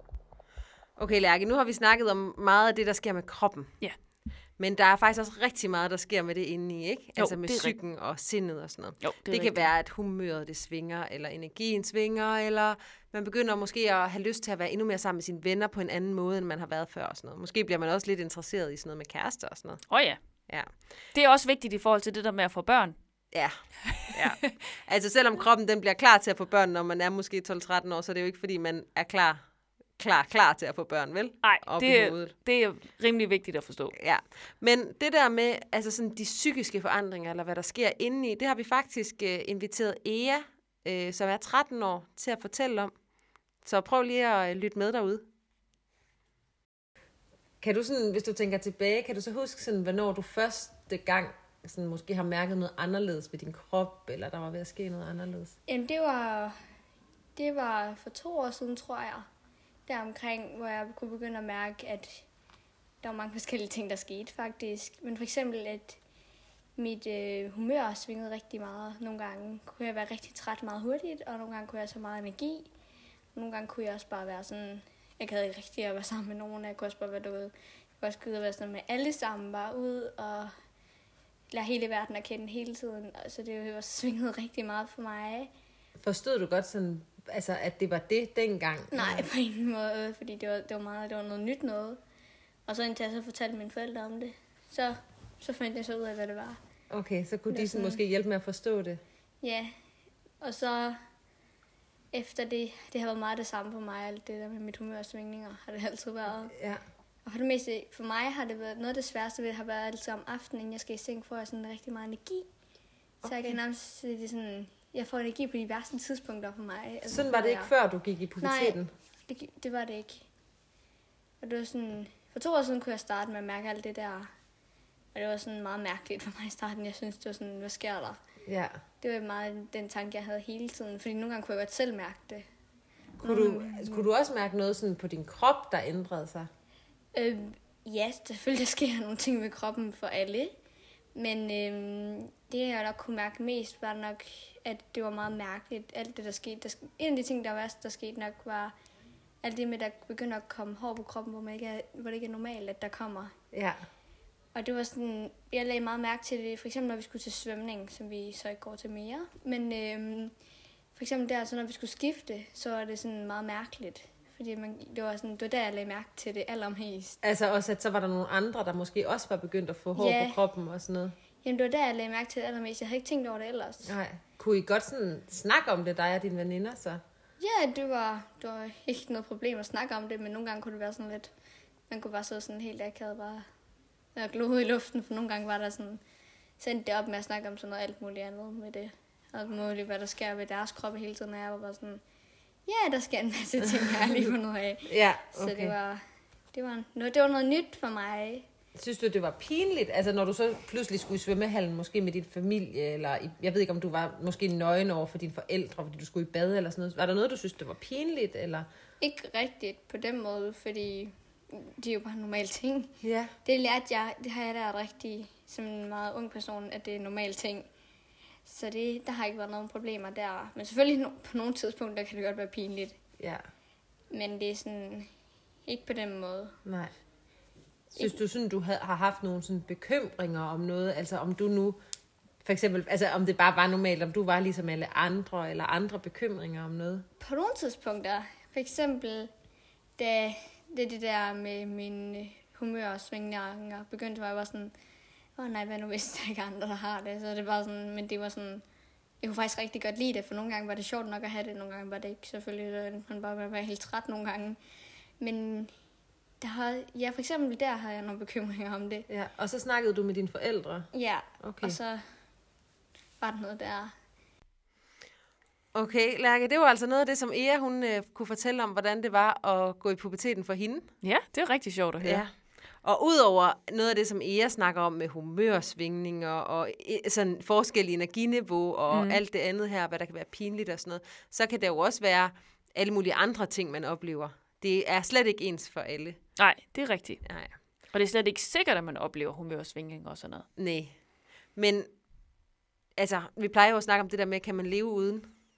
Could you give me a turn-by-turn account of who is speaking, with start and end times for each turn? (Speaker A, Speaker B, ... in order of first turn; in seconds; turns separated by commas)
Speaker A: 1.0-3.7, Speaker A: 4.6-19.8, Speaker B: 7.2-7.8, Speaker B: 9.0-9.7, Speaker B: 19.9-20.2, Speaker B: 21.1-22.9, Speaker B: 23.9-24.5, Speaker A: 24.1-29.4, Speaker A: 30.0-32.3, Speaker B: 31.4-33.9, Speaker A: 33.9-42.9, Speaker A: 43.6-45.2, Speaker A: 47.6-55.5, Speaker C: 55.7-56.5, Speaker C: 57.4-59.2, Speaker C: 59.9-62.2, Speaker C: 63.0-66.0, Speaker C: 66.8-72.7, Speaker C: 73.3-80.5, Speaker C: 81.5-85.5, Speaker A: 86.0-89.3, Speaker C: 88.9-92.0, Speaker C: 92.7-96.6, Speaker A: 96.9-99.0, Speaker C: 97.5-98.0, Speaker C: 99.4-99.7, Speaker C: 100.4-101.0, Speaker C: 102.1-106.5, Speaker A: 106.5-106.8, Speaker C: 107.2-112.5, Speaker A: 113.2-113.5, Speaker C: 113.2-117.7, Speaker A: 117.0-118.9, Speaker C: 118.4-120.3, Speaker C: 121.4-124.3, Speaker C: 125.1-128.2, Speaker A: 128.4-128.8, Speaker C: 129.0-132.4, Speaker C: 133.2-134.1, Speaker A: 133.2-136.5, Speaker C: 137.1-140.5, Speaker C: 141.1-148.7, Speaker C: 149.4-153.3, Speaker A: 153.5-153.8, Speaker C: 154.5-160.3, Speaker C: 160.9-167.2, Speaker A: 167.2-171.1, Speaker C: 169.9-170.4, Speaker C: 171.4-173.9, Speaker A: 173.8-177.0, Speaker C: 177.4-181.3, Speaker C: 181.9-183.4, Speaker C: 184.1-186.0, Speaker C: 186.6-192.0, Speaker C: 192.7-196.0, Speaker A: 193.7-194.3, Speaker A: 194.8-195.8, Speaker C: 196.5-198.4, Speaker A: 198.8-208.7, Speaker C: 209.0-217.7, Speaker A: 213.0-213.3, Speaker C: 218.4-223.0, Speaker C: 224.1-225.1, Speaker C: 225.7-226.6, Speaker A: 226.6-226.9, Speaker A: 227.9-231.8, Speaker C: 227.9-228.2, Speaker A: 232.4-237.0, Speaker C: 237.2-239.3, Speaker C: 240.0-244.7, Speaker C: 245.3-248.6, Speaker C: 249.2-254.6, Speaker C: 255.2-255.7, Speaker C: 256.4-259.1, Speaker A: 259.1-260.9, Speaker C: 260.9-262.0, Speaker A: 261.4-261.8, Speaker C: 263.2-263.9, Speaker A: 265.7-270.9, Speaker B: 271.0-272.2, Speaker A: 272.0-272.3, Speaker A: 272.8-286.2, Speaker B: 278.9-279.2, Speaker B: 286.4-287.2, Speaker A: 287.2-287.5, Speaker B: 287.9-290.4, Speaker A: 290.6-290.9, Speaker A: 291.6-291.9, Speaker A: 293.0-295.3